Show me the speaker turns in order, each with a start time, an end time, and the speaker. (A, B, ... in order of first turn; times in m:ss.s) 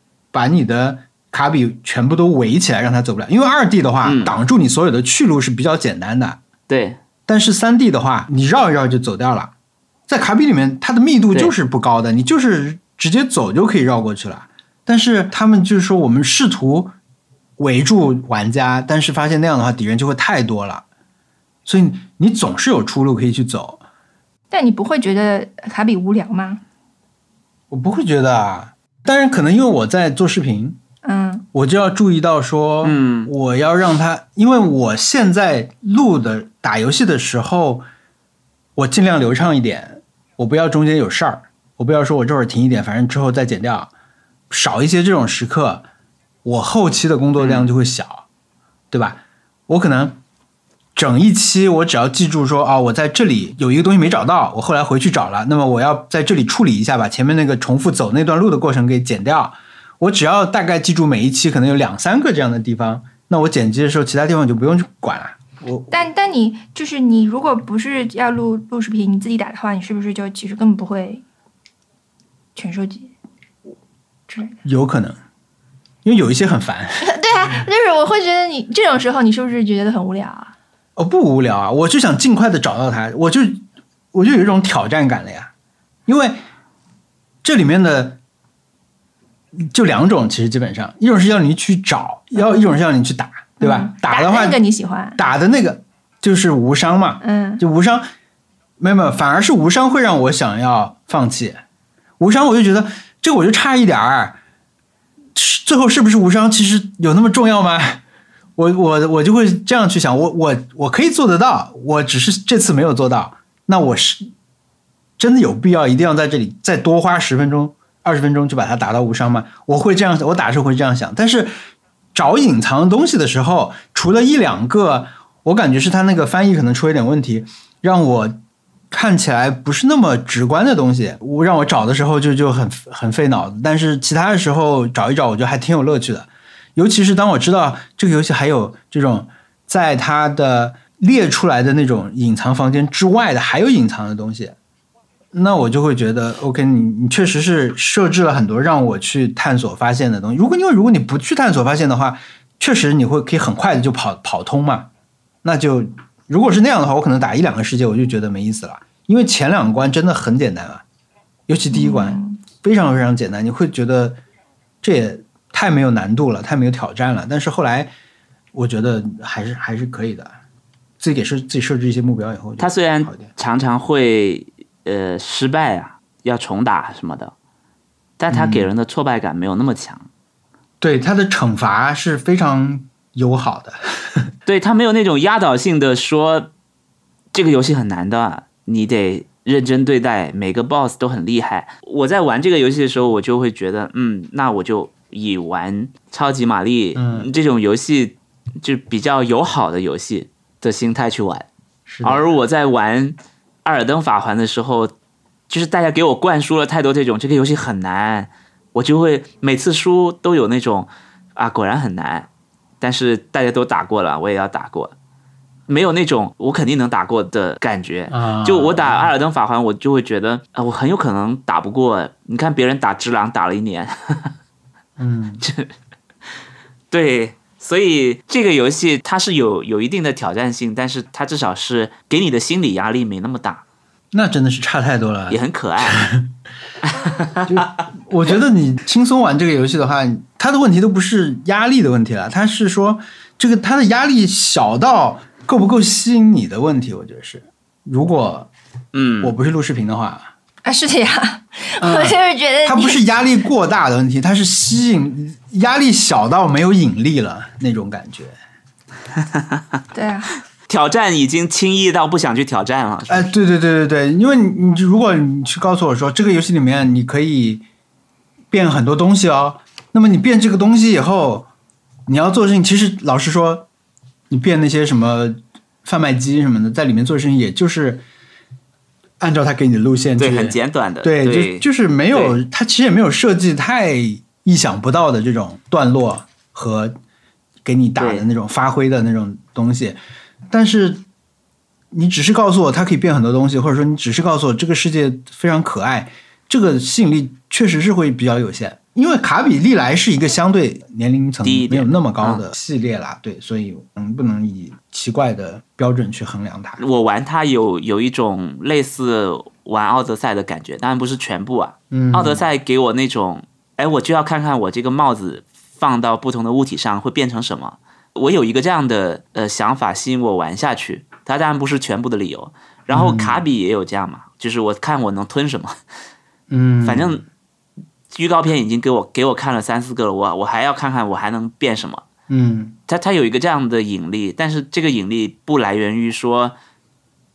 0:00.3-0:06.4 A
0:04.0-0:04.3 B
0:06.7-0:07.0 B
0:07.3-0:09.5 A
0:10.1-0:16.9 A
0:17.6-0:20.8 A
0:21.6-0:23.8 A
0:24.5-0:26.6 C
0:27.7-0:30.8 A
0:31.0-0:31.4 C
0:31.5-0:37.8 A
0:32.8-0:33.3 B
0:38.8-0:43.9 A
0:44.5-0:45.8 A
0:46.4-0:48.2 A
0:47.4-0:47.7 B
0:48.9-0:50.2 A
0:50.9-1:05.9 A
1:05.9-1:11.2 C
1:12.6-1:13.1 C
1:14.3-1:14.6 C
1:14.6-1:15.2 A
1:16.0-1:17.1 A
1:17.0-1:20.5 C
1:21.0-1:23.6 A
1:24.1-1:25.5 A
1:26.1-1:26.4 A
1:27.4-1:28.2 A
1:29.6-1:34.6 A
1:33.6-1:35.2 C
1:35.2-1:38.0 A
1:37.2-1:37.6 C
1:38.8-1:41.6 A
1:42.2-1:44.4 A
1:45.3-1:48.0 A
1:48.6-1:54.3 A
1:55.2-2:01.5 A
2:02.1-2:08.4 A
2:08.9-2:24.6 A
2:25.3-2:34.9 A
2:35.4-2:40.8 A
2:41.5-2:44.2 A
2:41.7-2:42.4 C
2:44.8-2:47.9 A
2:48.5-2:50.3 A
2:51.0-2:53.3 A
2:52.6-2:57.3 B
2:58.2-3:00.1 B
2:58.3-2:58.7 A
3:00.8-3:04.3 A
3:04.4-3:06.5 B
3:07.3-3:21.5 B
3:16.9-3:17.3 A
3:21.9-3:22.3 A
3:22.0-3:24.9 B
3:25.5-3:32.3 B
3:32.8-3:34.9 B
3:35.7-3:44.3 B
3:38.1-3:39.1 A
3:45.0-3:45.4 A
3:45.4-3:45.7 B
3:46.9-3:53.6 B
3:54.1-3:56.3 A
3:55.3-3:56.0 B
3:56.8-3:57.6 B
3:57.4-4:08.5 A
4:08.9-4:09.3 B
4:09.2-4:10.3 A
4:10.6-4:13.0 C
4:11.8-4:18.3 A
4:19.2-4:19.8 B
4:19.9-4:20.3 C
4:20.7-4:23.3 B
4:23.1-4:27.6 A
4:28.5-4:31.5 A
4:32.1-4:33.7 A
4:34.3-4:38.0 A
4:39.2-4:46.9 A
4:40.2-4:42.4 B
4:47.6-4:50.0 A
4:48.0-4:48.2 B
4:50.5-4:51.0 A
4:51.9-5:06.8 A
5:01.4-5:02.4 B
5:06.8-5:25.8 B
5:11.9-5:12.4 A
5:22.9-5:23.4 A
5:26.5-5:27.2 A
5:26.8-5:27.2 B
5:28.1-5:32.0 B
5:32.3-5:32.8 A
5:32.9-5:36.6 B